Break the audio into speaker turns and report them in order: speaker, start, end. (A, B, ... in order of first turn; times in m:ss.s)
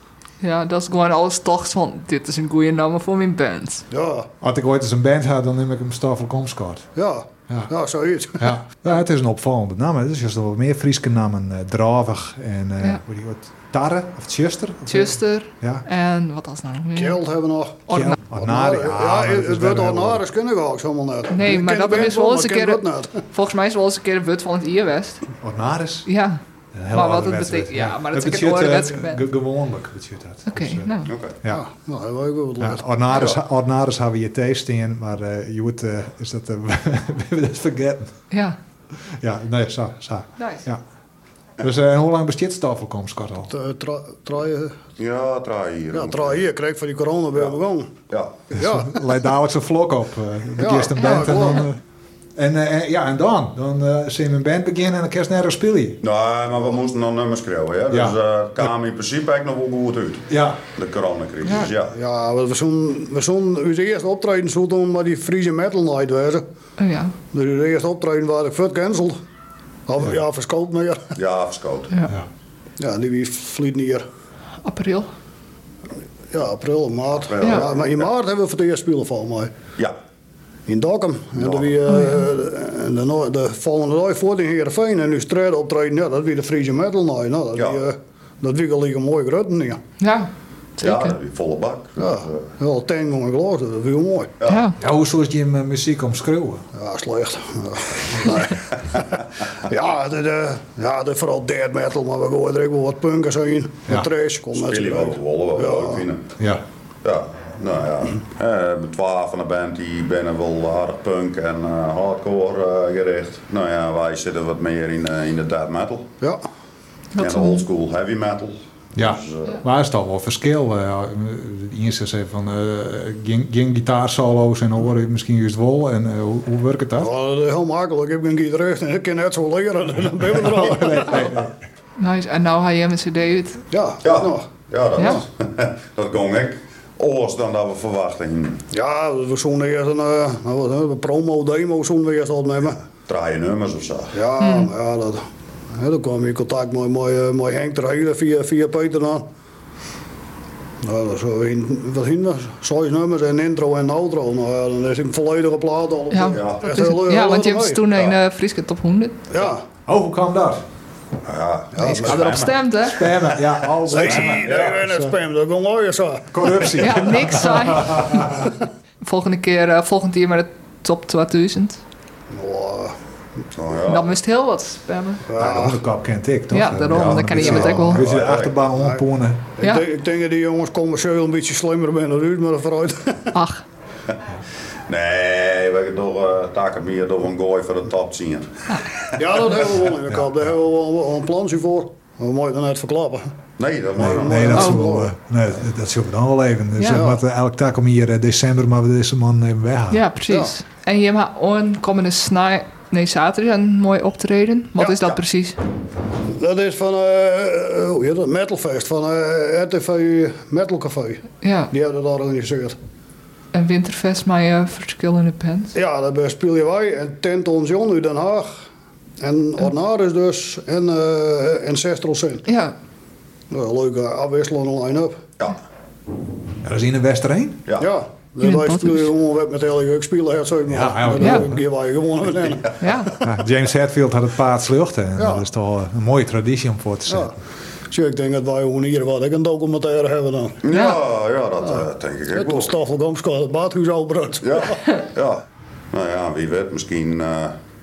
0:00.4-0:03.8 A
0:03.9-0:04.3 B
0:04.4-0:06.8 C
0:07.0-0:08.5 B
0:08.4-0:15.8 C
0:14.9-0:17.2 A
0:16.9-0:23.2 B
0:17.9-0:18.2 A
0:17.9-0:20.2 C
0:21.3-0:25.2 A
0:25.4-0:26.1 C
0:26.0-0:26.4 A
0:26.7-0:31.6 C
0:26.9-0:29.2 A
0:30.5-0:31.1 A
0:31.0-0:31.4 D
0:31.4-0:32.8 B
0:32.6-0:38.2 C
0:38.3-0:38.6 A
0:39.1-0:40.8 C
0:40.4-0:40.6 A
0:41.6-0:43.5 C
0:43.5-0:44.8 B
0:45.0-0:46.4 D
0:45.9-0:49.0 B
0:48.1-0:48.5 D
0:48.6-0:51.8 C
0:50.6-0:51.7 B
0:51.0-0:51.6 A
0:52.4-0:56.0 C
0:56.0-1:01.9 D
0:57.9-0:58.7 C
1:00.3-1:00.6 C
1:01.9-1:06.4 B
1:06.8-1:07.1 A
1:07.3-1:09.2 B
1:09.9-1:11.1 B
1:11.1-1:11.9 D
1:12.8-1:14.0 B
1:14.6-1:15.1 A
1:16.3-1:19.5 B
1:17.3-1:17.8 D
1:20.7-1:29.8 B
1:21.9-1:22.2 A
1:30.0-1:31.1 A
1:30.8-1:32.5 D
1:32.0-1:34.4 B
1:34.4-1:34.7 D
1:34.5-1:34.8 A
1:34.8-1:36.6 C
1:36.7-1:38.7 B
1:39.6-1:46.0 B
1:44.5-1:46.2 D
1:46.4-1:46.6 C
1:47.0-1:56.1 D
1:57.2-1:57.6 A
1:57.2-1:59.6 D
1:59.0-2:07.1 C
2:07.0-2:11.3 B
2:10.3-2:11.5 C
2:12.0-2:13.6 A
2:13.7-2:15.2 B
2:14.0-2:18.6 D
2:18.7-2:22.8 B
2:23.0-2:24.1 D
2:24.1-2:29.3 B
2:24.4-2:24.7 A
2:30.8-2:37.9 B
2:36.1-2:39.2 A
2:36.3-2:36.6 D
2:39.3-2:39.6 B
2:39.8-2:40.6 C
2:41.2-2:42.6 D
2:41.7-2:42.2 B
2:41.8-2:43.1 A
2:42.8-2:45.1 C
2:43.9-2:46.8 B
2:44.0-2:44.7 D
2:46.3-2:48.4 C
2:46.8-2:48.5 A
2:49.0-2:51.8 A
2:52.3-2:53.0 B
2:53.5-2:54.1 D
2:53.8-2:55.2 A
2:55.3-2:55.8 B
2:55.4-2:59.5 C
2:56.5-2:58.0 A
2:56.9-2:58.6 D
2:58.7-2:59.0 B
2:59.6-3:03.4 B
3:03.3-3:03.6 A
3:04.9-3:09.2 D
3:09.1-3:13.4 B
3:13.6-3:14.5 D
3:14.0-3:15.1 B
3:14.0-3:20.0 C
3:16.9-3:17.2 B
3:19.9-3:25.6 A
3:20.3-3:20.5 B
3:24.8-3:25.0 B
3:26.3-3:32.8 B
3:31.4-3:31.7 A
3:33.5-3:35.7 A
3:35.7-3:38.5 B
3:39.2-3:42.4 B
3:42.5-3:42.7 A
3:43.5-3:45.3 B
3:46.6-3:47.6 C
3:47.8-3:52.8 B
3:48.4-3:49.1 A
3:50.7-3:51.6 C
3:51.2-3:51.5 A
3:52.8-3:53.2 A
3:53.2-3:57.4 C
3:55.2-3:55.4 B
3:57.1-3:57.3 B
3:57.9-4:00.6 B
4:00.6-4:02.7 D
4:00.7-4:01.0 A
4:02.3-4:04.8 B
4:04.4-4:07.6 D